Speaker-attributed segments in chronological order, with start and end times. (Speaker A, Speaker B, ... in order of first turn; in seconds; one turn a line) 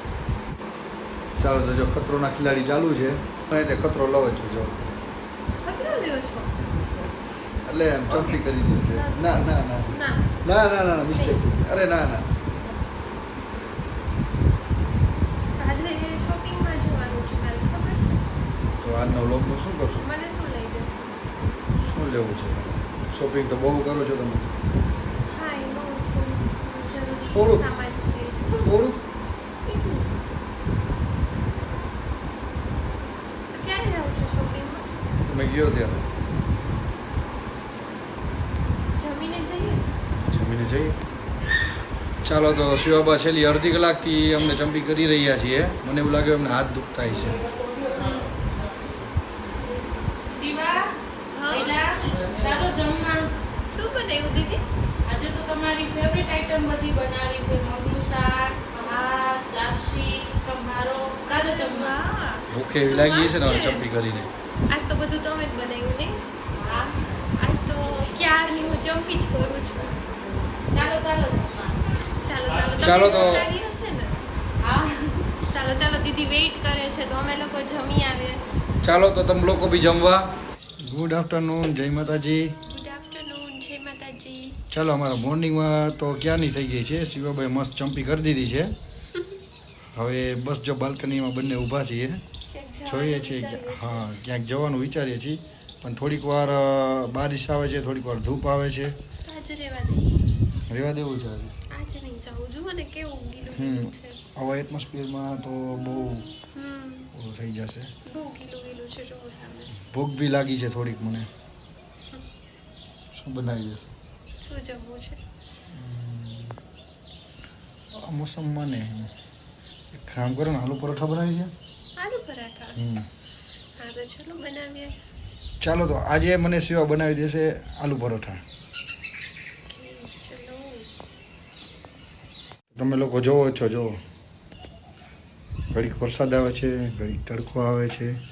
Speaker A: 1.4-4.8
Speaker B: 5.6-6.5
Speaker A: 7.7-12.3
Speaker B: 8.1-10.4
Speaker B: 11.1-11.4
Speaker B: 15.6-18.2
Speaker A: 18.8-20.0
Speaker B: 20.0-21.3
Speaker A: 21.8-24.5
Speaker B: 25.3-28.7
Speaker A: 27.3-27.7
Speaker A: 28.5-29.0
Speaker B: 29.6-30.1
Speaker B: 33.5-34.9
Speaker A: 35.2-36.1
Speaker B: 39.0-39.9
Speaker A: 40.2-41.0
Speaker A: 42.2-47.4
Speaker C: 50.3-50.9
Speaker B: 51.3-51.8
Speaker C: 51.5-53.3
Speaker B: 53.7-54.6
Speaker C: 55.1-62.0
Speaker B: 61.3-63.9
Speaker A: 62.5-64.3
Speaker B: 64.7-70.0
Speaker C: 66.6-67.0
Speaker C: 70.7-71.8
Speaker B: 72.1-74.2
Speaker A: 72.8-73.5
Speaker C: 74.6-75.2
Speaker B: 75.5-78.4
Speaker A: 78.8-82.5
Speaker B: 82.7-84.6
Speaker A: 84.7-88.7
Speaker A: 89.9-92.2
Speaker B: 92.5-94.2
Speaker A: 92.9-98.9
Speaker B: 99.2-100.1
Speaker A: 100.7-101.5
Speaker B: 101.7-104.2
Speaker A: 103.5-106.3
Speaker B: 106.5-107.1
Speaker A: 107.1-107.9
Speaker B: 108.1-109.8
Speaker A: 109.8-111.3
Speaker A: 113.1-113.9
Speaker B: 114.4-115.2
Speaker A: 115.7-116.6
Speaker A: 117.9-119.1
Speaker A: 119.9-121.5
Speaker B: 122.0-122.8
Speaker A: 122.8-123.1
Speaker B: 123.8-125.0
Speaker A: 125.6-128.4
Speaker B: 129.7-130.9
Speaker A: 132.7-134.0
Speaker A: 135.7-138.2